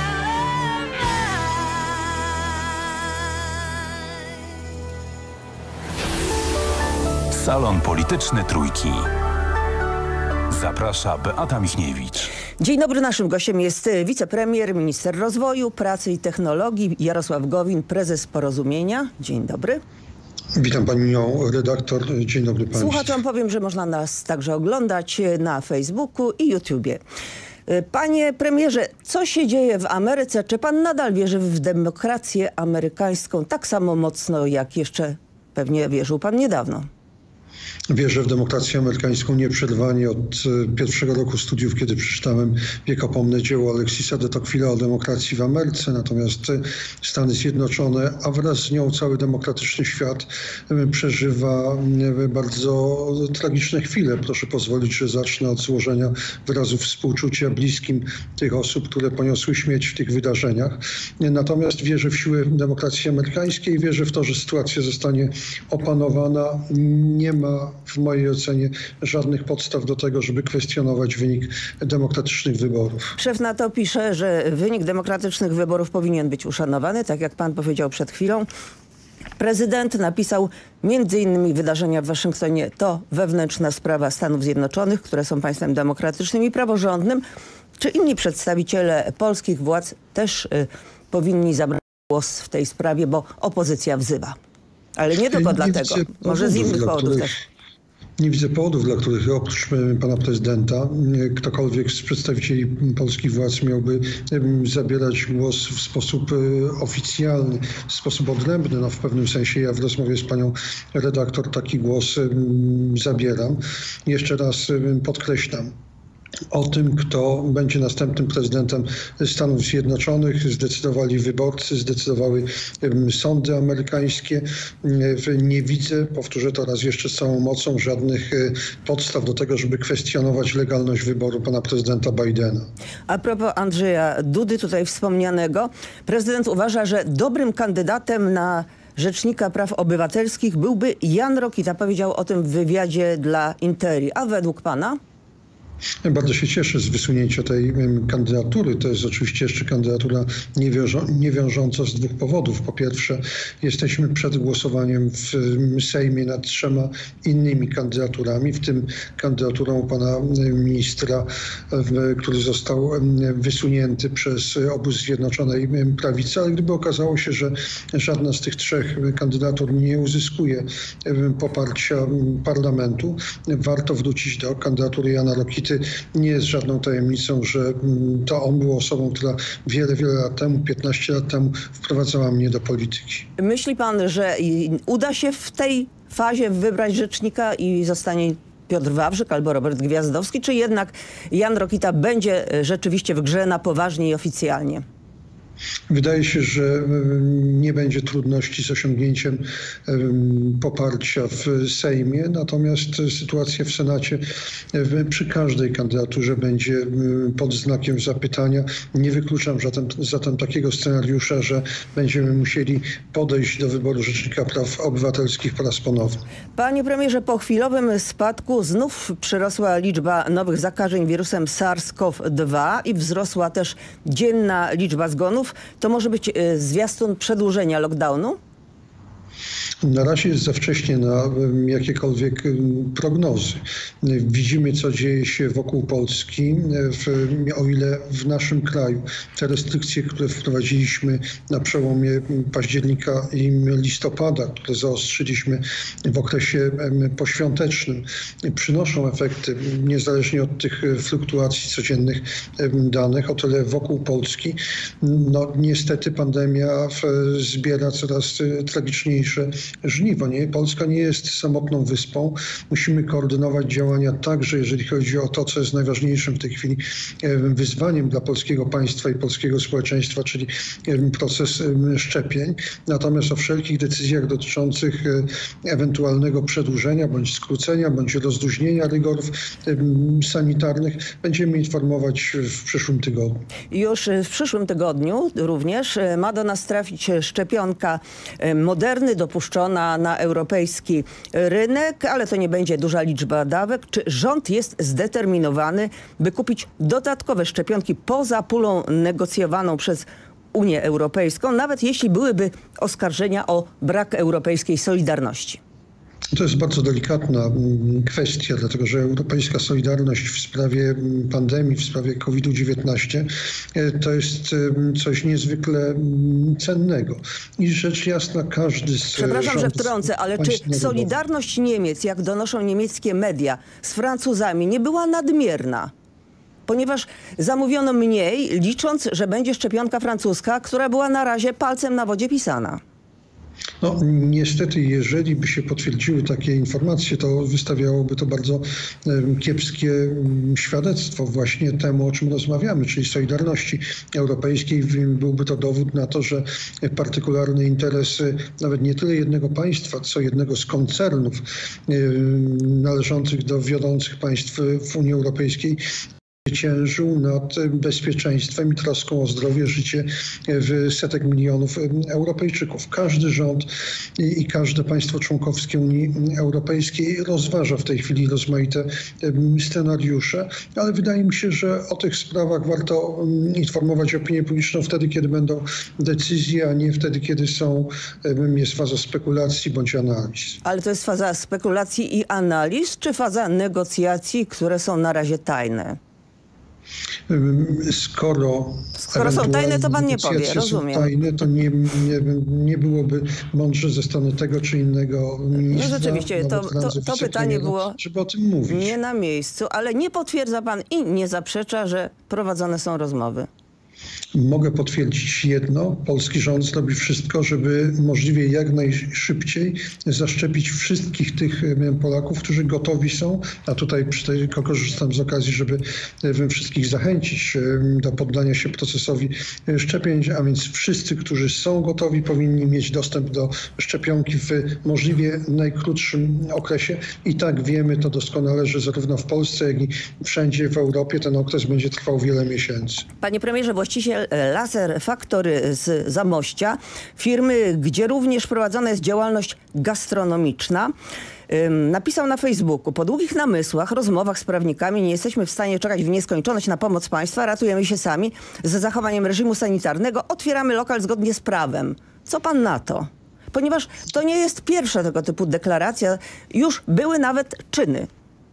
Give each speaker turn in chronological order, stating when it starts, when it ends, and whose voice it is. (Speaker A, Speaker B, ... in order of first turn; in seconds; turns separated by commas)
Speaker A: 7.3-9.1, Speaker A: 10.5-12.3, Speaker B: 12.6-19.8, Speaker C: 20.6-23.2, Speaker B: 22.7-27.0, Speaker B: 27.7-36.9, Speaker C: 37.9-73.1, Speaker B: 73.2-78.5, Speaker B: 79.4-87.2, Speaker B: 87.8-94.3, Speaker B: 95.0-97.3, Speaker C: 95.3-97.3, Speaker C: 98.2-115.7, Speaker C: 116.5-132.7, Speaker B: 133.1-145.0, Speaker C: 146.0-183.3, Speaker B: 183.4-194.8, Speaker C: 195.9-216.2, Speaker B: 216.6-228.4, Speaker C: 229.8-283.4, Speaker B: 283.7-305.6, Speaker C: 306.3-321.1, Speaker B: 319.1-325.9, Speaker B: 326.7-332.8, Speaker C: 333.8-355.8, Speaker C: 356.4-380.6, Speaker B: 380.6-386.0, Speaker C: 387.3-398.9, Speaker B: 389.0-391.1, Speaker B: 395.6-398.0, Speaker B: 398.7-403.5, Speaker C: 404.3-433.0, Speaker B: 433.2-440.9, Speaker B: 441.5-458.1